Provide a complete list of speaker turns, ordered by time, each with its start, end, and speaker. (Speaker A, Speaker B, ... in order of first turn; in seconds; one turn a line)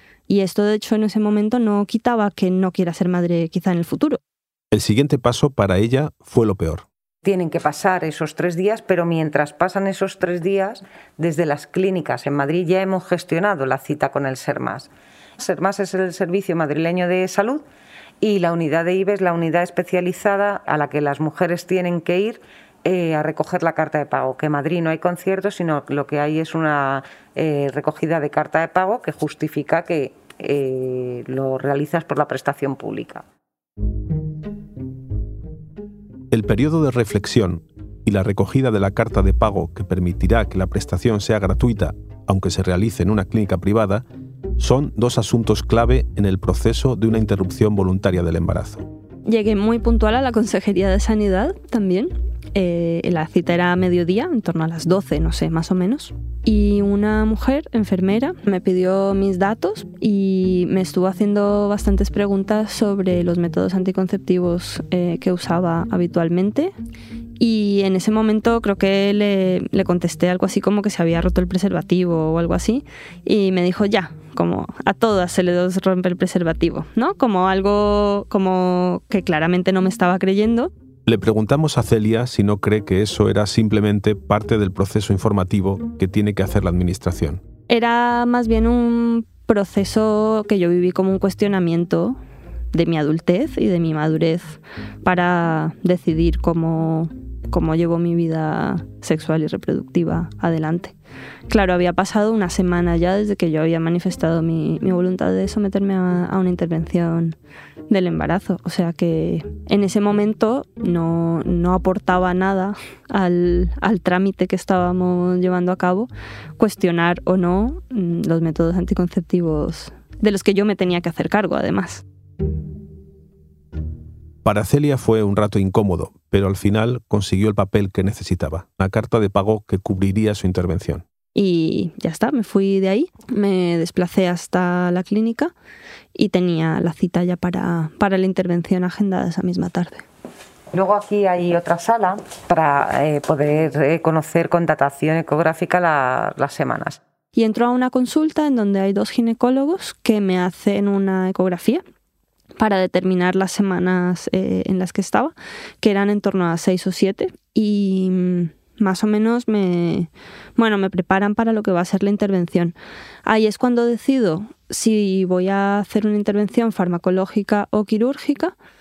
Speaker A: 0.3-4.2
Speaker B: 4.7-6.9
Speaker C: 7.2-17.6
Speaker C: 18.2-33.2
Speaker B: 36.3-44.0
Speaker B: 44.6-48.9
Speaker A: 49.3-66.7
Speaker A: 67.4-80.7
Speaker B: 81.1-87.4
Speaker A: 87.7-92.2
Speaker A: 92.7-101.0
Speaker A: 101.5-107.3
Speaker A: 107.9-122.0
Speaker B: 124.4-131.0
Speaker A: 131.3-135.5
Speaker A: 136.2-140.0
Speaker C: 140.7-147.0
Speaker A: 147.3-151.8
Speaker A: 152.6-168.5